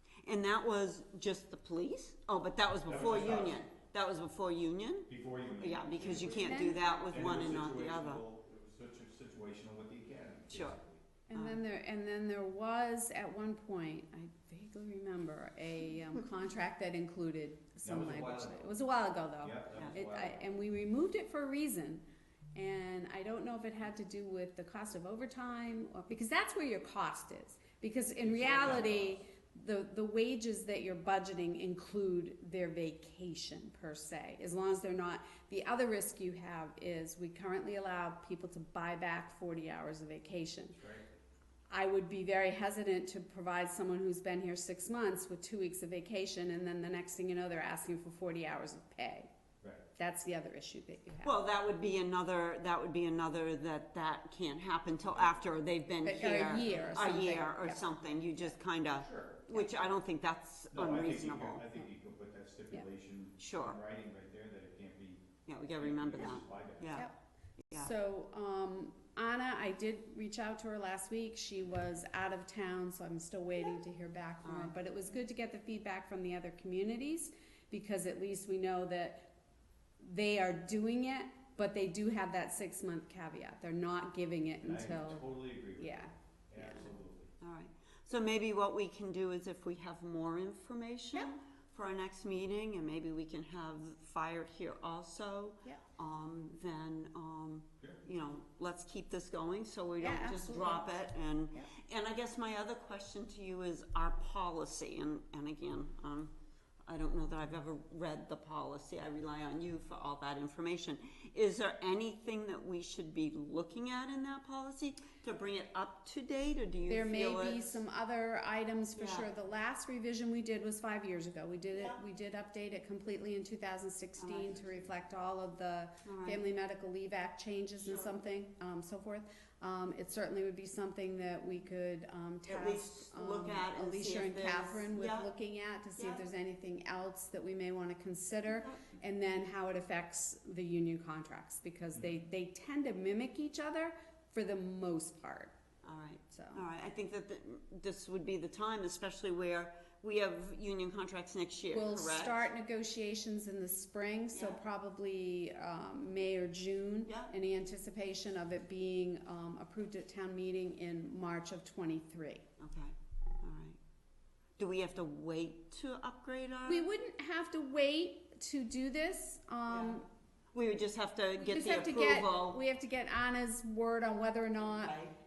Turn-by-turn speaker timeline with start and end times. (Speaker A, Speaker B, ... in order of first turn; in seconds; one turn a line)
Speaker A: 0.2-8.2
Speaker B: 2.8-3.6
Speaker B: 5.1-11.0
Speaker C: 6.2-6.9
Speaker A: 10.5-10.8
Speaker C: 11.3-22.0
Speaker A: 11.3-11.6
Speaker B: 17.8-18.7
Speaker B: 19.4-20.5
Speaker C: 22.5-40.8
Speaker B: 28.2-29.2
Speaker B: 40.7-41.2
Speaker C: 41.7-49.3
Speaker C: 50.0-51.4
Speaker A: 51.2-61.7
Speaker B: 55.0-55.4
Speaker C: 56.0-58.5
Speaker B: 56.5-57.2
Speaker B: 59.0-59.4
Speaker C: 59.5-60.0
Speaker B: 60.7-65.2
Speaker A: 63.4-63.8
Speaker A: 65.5-67.1
Speaker B: 65.8-67.0
Speaker C: 67.7-79.3
Speaker A: 74.4-74.7
Speaker C: 80.0-86.1
Speaker B: 84.6-86.0
Speaker B: 86.5-87.3
Speaker A: 86.6-106.3
Speaker C: 100.0-100.9
Speaker A: 106.9-117.8
Speaker C: 116.9-145.5
Speaker A: 118.9-119.3
Speaker A: 121.7-122.0
Speaker A: 124.2-124.5
Speaker B: 124.5-124.9
Speaker A: 126.0-126.4
Speaker A: 127.8-128.2
Speaker A: 132.4-135.3
Speaker A: 136.0-136.2
Speaker A: 138.5-138.8
Speaker A: 145.8-152.5
Speaker C: 146.3-146.6
Speaker C: 151.7-162.4
Speaker A: 154.3-154.6
Speaker A: 157.1-157.3
Speaker A: 162.6-163.8
Speaker A: 164.6-166.9
Speaker C: 166.7-170.0
Speaker A: 169.7-170.0
Speaker A: 170.5-172.6
Speaker C: 171.4-175.0
Speaker A: 174.7-175.2